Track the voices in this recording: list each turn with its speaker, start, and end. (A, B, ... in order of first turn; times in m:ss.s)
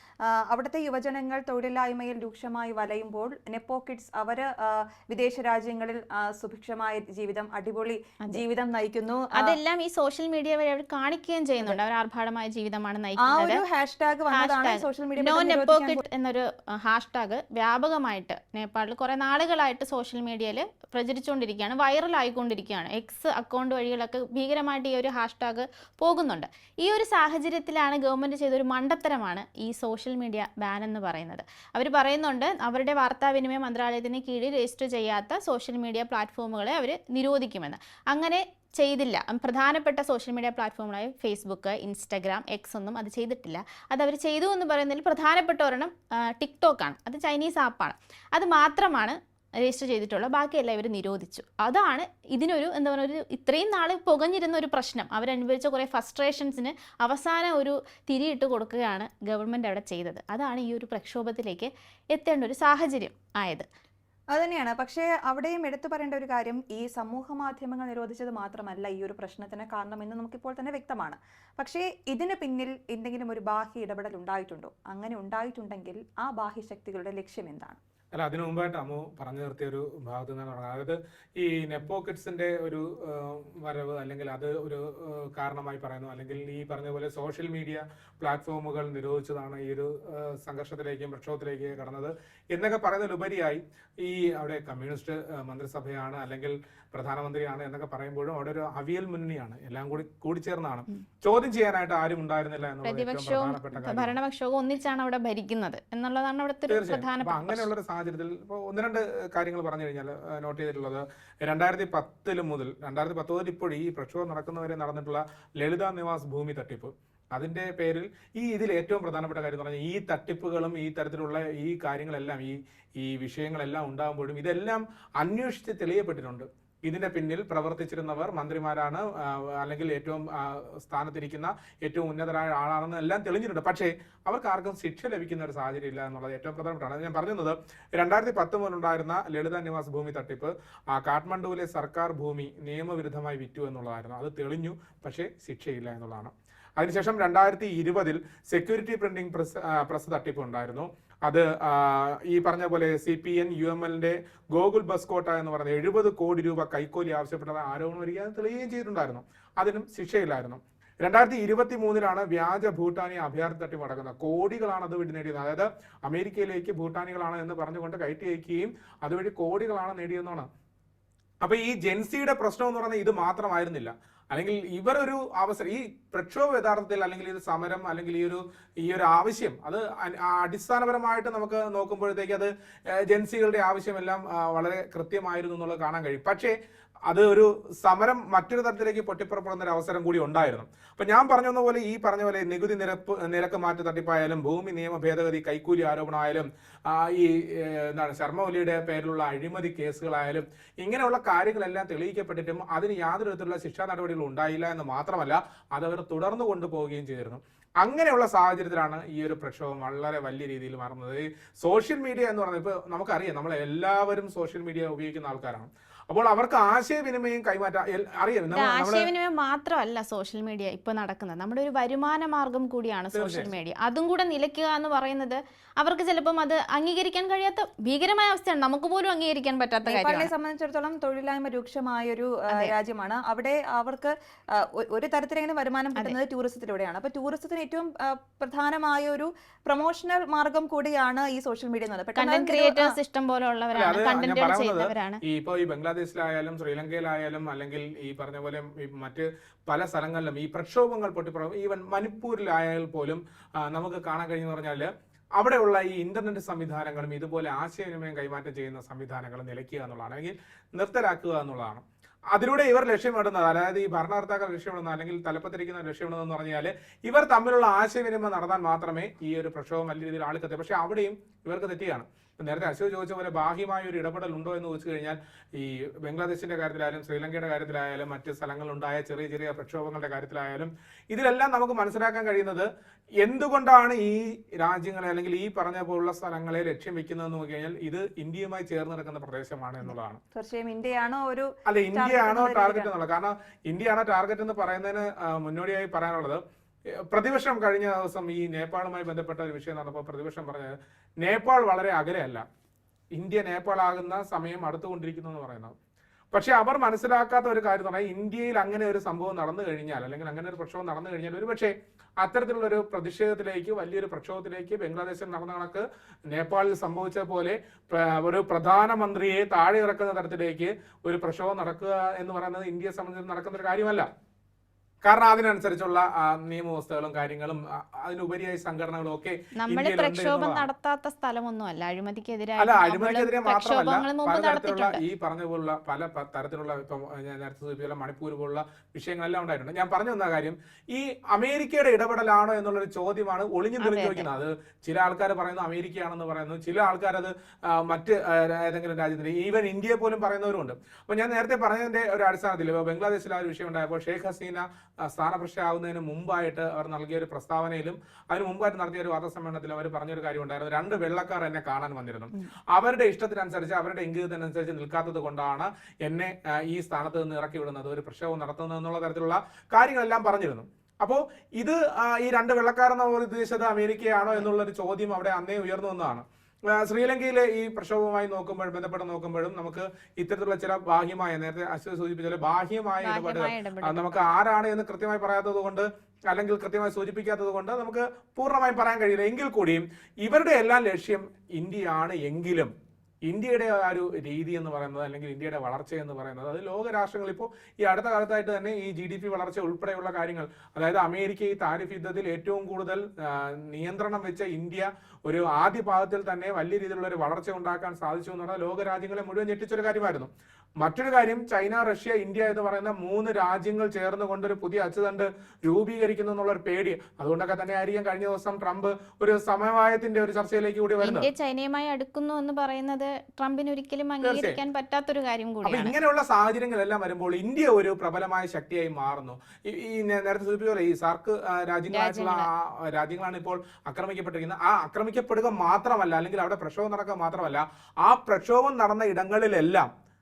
0:00.3-0:09.6 A
0:09.3-0:13.6 B
0:13.2-0:16.0 A
0:14.3-1:03.7 B
1:04.3-1:17.8 A
1:18.1-1:44.2 C
1:42.8-1:47.7 B
1:46.7-2:50.5 C
2:51.4-3:06.6 C
3:07.1-3:39.1 C
3:38.5-3:50.3 B
3:43.1-3:43.5 C
3:49.8-4:02.9 A
4:02.2-4:05.2 B
4:03.7-4:42.7 C
4:43.2-4:50.2 C
4:50.4-4:52.9 A
4:51.6-4:56.4 C
4:57.1-5:02.4 C
5:03.1-5:05.7 C
5:06.3-5:24.1 C
5:25.0-5:30.7 C
5:29.6-5:35.0 B
5:32.6-6:32.7 C
5:43.8-5:44.3 B
6:23.0-6:24.3 B
6:33.3-6:50.3 C
6:50.8-7:01.3 C
7:01.0-7:05.9 B
7:04.2-7:04.6 C
7:05.6-7:19.9 C
7:11.9-7:12.5 B